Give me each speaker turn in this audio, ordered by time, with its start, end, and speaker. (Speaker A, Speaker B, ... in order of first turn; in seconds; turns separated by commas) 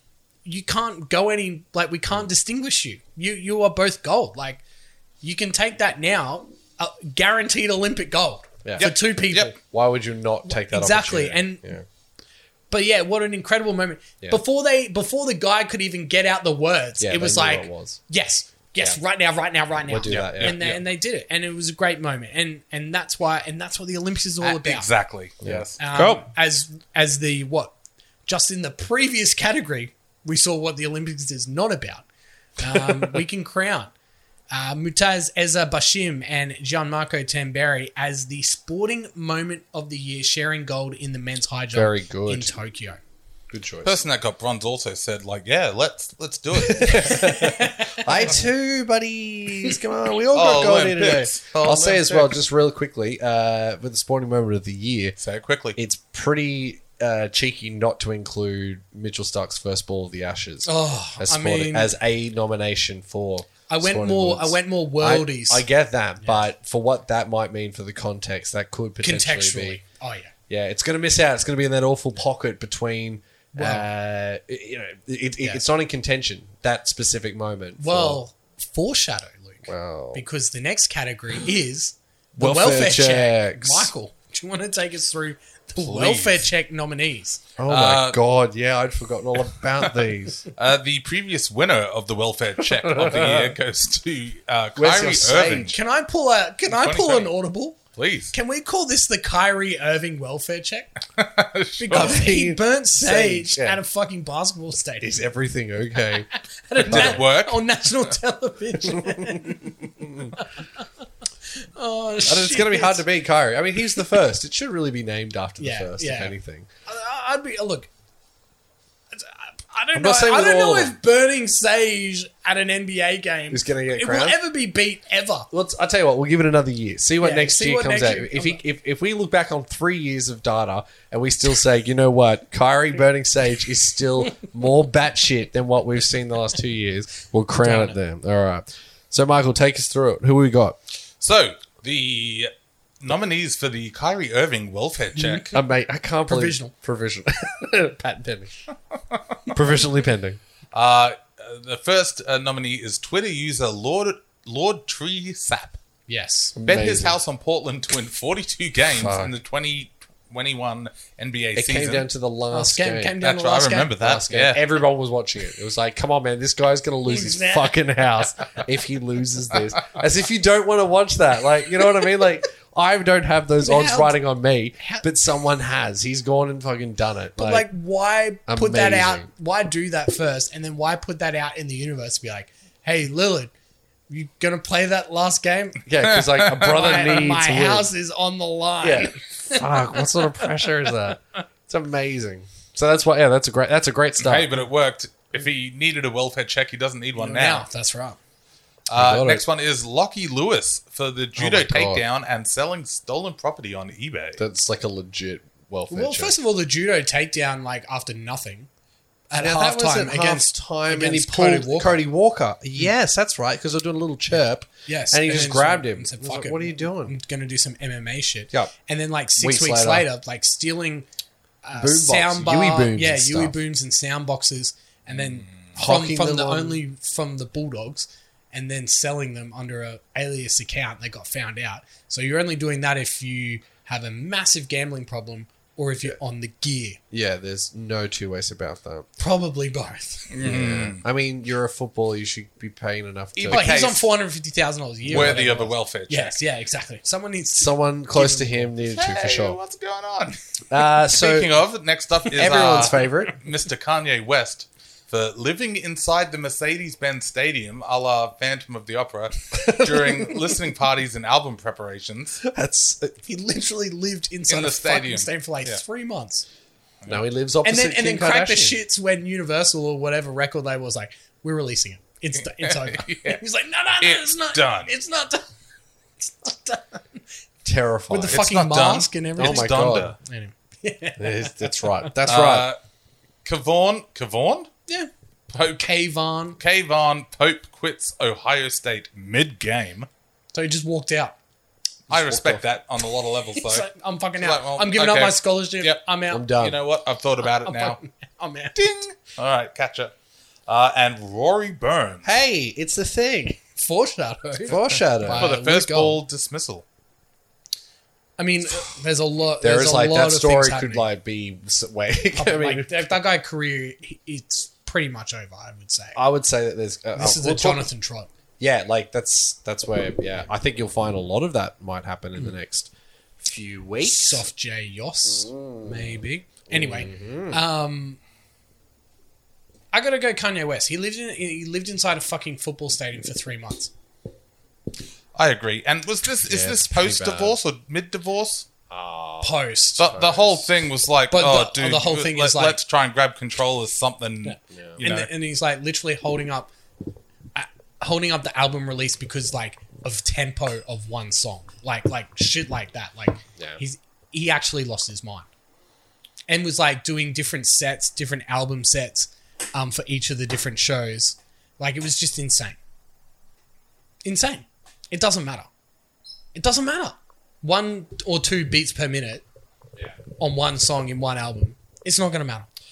Speaker A: 0.4-4.6, Speaker A: 5.2-9.6, Speaker B: 8.6-8.9, Speaker C: 8.8-9.5, Speaker B: 9.6-11.8, Speaker A: 10.4-11.6, Speaker A: 12.7-24.9, Speaker B: 17.0-18.0, Speaker B: 19.9-20.7, Speaker C: 20.1-20.8, Speaker C: 24.4-25.8, Speaker B: 25.4-26.3, Speaker A: 25.8-27.7, Speaker A: 28.2-32.0, Speaker A: 32.6-33.9, Speaker A: 34.5-43.0, Speaker B: 41.7-42.5, Speaker B: 43.5-44.0, Speaker C: 43.8-47.2, Speaker B: 46.5-55.2, Speaker A: 46.9-48.3, Speaker C: 50.3-52.4, Speaker C: 55.2-55.8, Speaker B: 55.8-69.8, Speaker A: 60.6-61.9, Speaker A: 63.7-65.7, Speaker A: 69.0-70.3, Speaker B: 70.5-78.2, Speaker A: 73.5-73.8, Speaker A: 77.8-87.4, Speaker B: 79.7-80.2, Speaker B: 82.4-83.9, Speaker C: 85.8-86.5, Speaker B: 87.6-90.4, Speaker C: 87.7-88.2, Speaker C: 90.5-95.8, Speaker B: 92.7-93.6, Speaker B: 94.8-95.7, Speaker A: 95.4-97.8, Speaker C: 96.7-97.3, Speaker C: 97.9-98.3, Speaker A: 98.3-100.9, Speaker C: 101.2-102.2, Speaker A: 101.8-105.1, Speaker B: 101.9-103.8, Speaker B: 105.0-106.3, Speaker A: 106.3-110.9, Speaker C: 106.8-107.6, Speaker B: 106.8-107.2, Speaker B: 108.9-110.3, Speaker A: 111.5-113.0, Speaker B: 112.3-116.7, Speaker A: 115.6-116.3, Speaker A: 116.9-117.9, Speaker A: 119.1-125.5, Speaker B: 119.9-121.0, Speaker B: 123.5-124.4, Speaker B: 125.5-140.8, Speaker A: 127.2-128.6, Speaker A: 137.6-137.9, Speaker C: 141.2-145.5, Speaker A: 145.2-145.5, Speaker B: 145.5-148.7, Speaker A: 146.3-146.7, Speaker B: 149.5-150.4, Speaker C: 150.7-155.8, Speaker A: 156.1-156.6, Speaker B: 156.5-157.2, Speaker C: 156.7-162.1, Speaker B: 158.9-159.3, Speaker B: 161.5-163.2, Speaker A: 162.5-164.1, Speaker C: 163.2-164.6, Speaker B: 164.0-177.7, Speaker A: 167.1-167.8, Speaker A: 173.6-174.2, Speaker A: 174.8-175.1, Speaker A: 177.4-183.5, Speaker B: 178.5-179.3, Speaker A: 184.1-185.8, Speaker B: 185.8-187.9, Speaker C: 186.1-186.8, Speaker A: 186.6-190.7, Speaker B: 188.8-194.5, Speaker C: 194.2-197.7, Speaker A: 197.2-198.2, Speaker C: 198.9-204.4, Speaker B: 198.9-199.4, Speaker B: 201.4-202.0, Speaker B: 204.4-206.3, Speaker A: 205.9-208.7, Speaker A: 209.3-212.0, Speaker B: 209.3-217.1, Speaker A: 214.8-221.1, Speaker B: 219.4-220.1, Speaker A: 221.6-237.0, Speaker B: 221.8-223.6, Speaker B: 225.8-226.8, Speaker B: 237.1-239.1, Speaker A: 239.2-240.3, Speaker C: 240.3-241.0, Speaker B: 240.4-243.7, Speaker C: 243.3-244.1, Speaker A: 243.5-248.7, Speaker B: 245.1-245.5, Speaker C: 245.1-246.3, Speaker B: 247.6-249.6, Speaker C: 248.8-250.4, Speaker B: 250.7-251.5, Speaker C: 251.0-262.4, Speaker B: 252.3-253.3, Speaker A: 252.6-253.1, Speaker B: 259.5-260.5, Speaker B: 262.4-263.2, Speaker A: 263.2-266.4, Speaker C: 264.5-265.8, Speaker B: 267.1-268.8, Speaker A: 267.6-275.5, Speaker C: 272.4-273.4, Speaker C: 274.0-274.9, Speaker A: 276.2-277.2, Speaker B: 277.6-278.4, Speaker A: 278.1-282.2, Speaker C: 278.3-280.1, Speaker B: 279.4-280.1, Speaker B: 281.2-282.7, Speaker C: 282.2-282.8, Speaker C: 283.4-284.7, Speaker C: 285.5-285.9, Speaker A: 285.7-286.6, Speaker C: 286.6-290.1, Speaker A: 290.5-291.4, Speaker B: 292.1-292.6, Speaker C: 292.1-298.0, Speaker A: 293.5-296.5, Speaker B: 296.3-296.8, Speaker A: 297.4-298.8, Speaker C: 298.7-300.1, Speaker C: 300.7-302.3, Speaker B: 302.2-303.6, Speaker A: 303.8-306.2, Speaker B: 304.7-305.5, Speaker C: 305.3-306.8, Speaker A: 308.4-311.1, Speaker B: 309.6-313.1, Speaker A: 312.3-316.2, Speaker B: 316.1-317.9, Speaker A: 317.1-318.3, Speaker B: 318.6-324.4, Speaker A: 324.0-328.2, Speaker B: 325.2-326.2, Speaker B: 326.7-327.6, Speaker A: 329.9-333.9, Speaker C: 335.3-338.6, Speaker B: 336.5-337.6, Speaker B: 338.9-340.7, Speaker A: 339.4-340.2, Speaker C: 340.0-345.3, Speaker A: 341.3-342.8, Speaker A: 344.4-346.7, Speaker B: 344.7-345.0, Speaker A: 347.5-355.5, Speaker A: 356.5-362.8, Speaker A: 364.2-365.7, Speaker A: 366.5-369.4, Speaker A: 370.4-372.7